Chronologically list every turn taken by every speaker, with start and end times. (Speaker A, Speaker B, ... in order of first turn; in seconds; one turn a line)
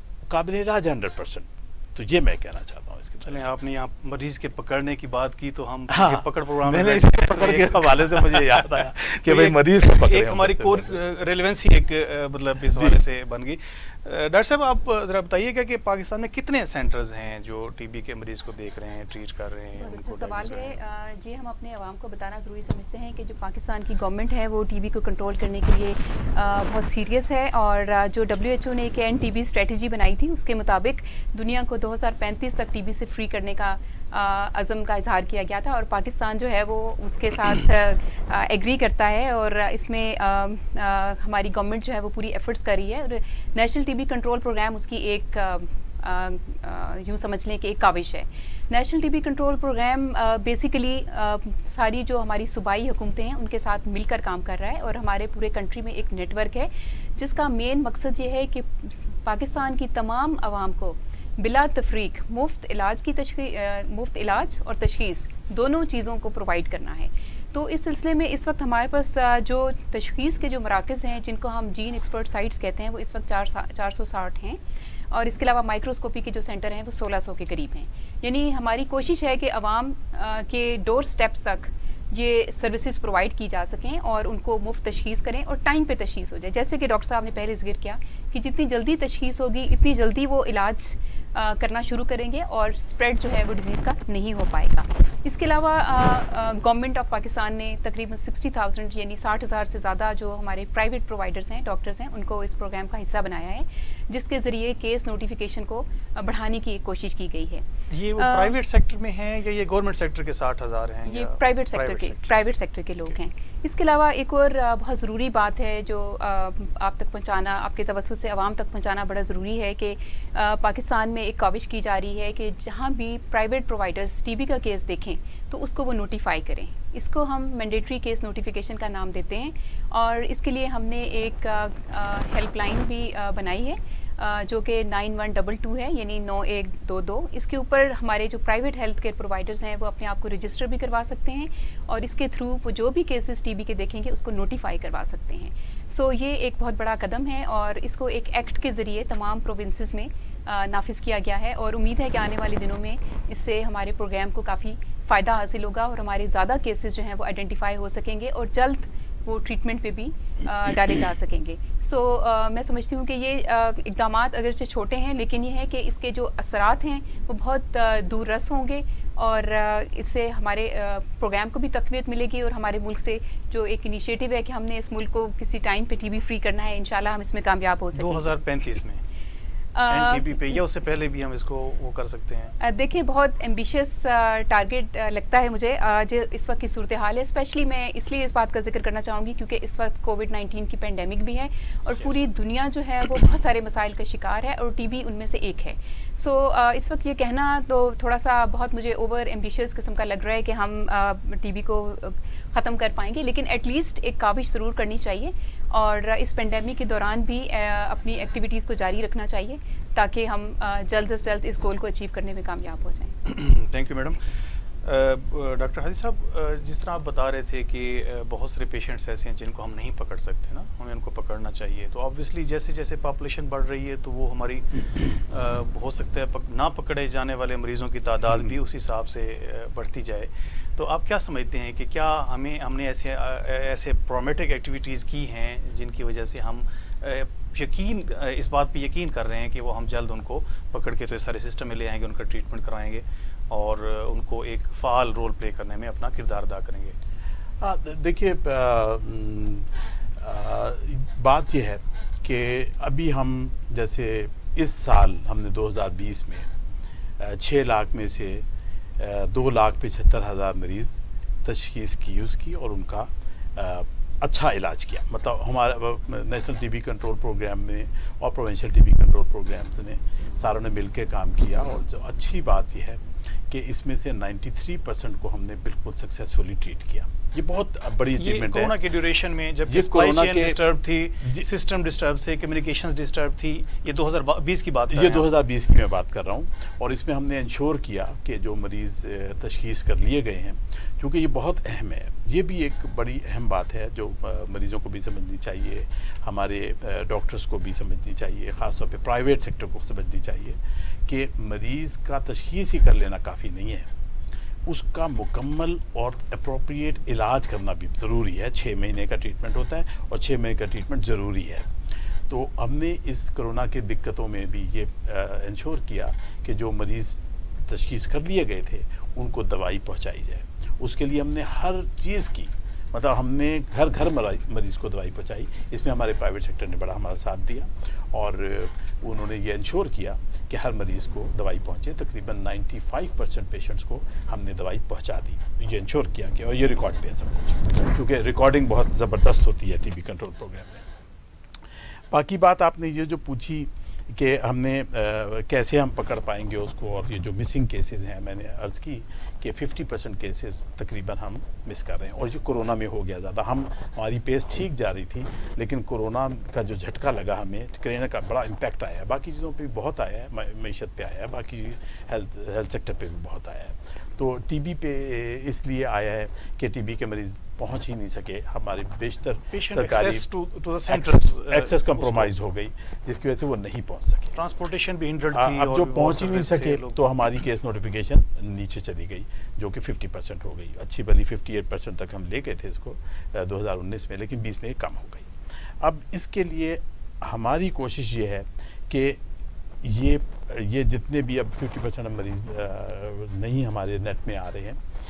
Speaker A: 0.3-3.5
Speaker B: 3.2-20.8
Speaker A: 5.9-11.0
Speaker A: 12.7-13.0
Speaker C: 19.8-74.6
Speaker C: 75.1-108.5
Speaker B: 107.9-112.5
Speaker C: 111.1-178.4
Speaker B: 177.9-179.0
Speaker C: 179.8-180.6
Speaker B: 179.9-182.6
Speaker C: 182.6-213.2
Speaker B: 213.2-214.2
Speaker B: 214.8-247.0
Speaker A: 247.6-256.5
Speaker A: 257.2-258.5
Speaker A: 259.0-278.8
Speaker B: 278.2-285.3
Speaker A: 279.7-280.6
Speaker A: 284.9-303.9
Speaker A: 304.7-311.7
Speaker A: 312.3-340.9
Speaker A: 342.1-370.3
Speaker B: 369.5-372.3
Speaker A: 370.9-374.4
Speaker B: 374.4-377.0
Speaker A: 375.3-385.3
Speaker A: 385.8-389.2
Speaker A: 389.8-394.8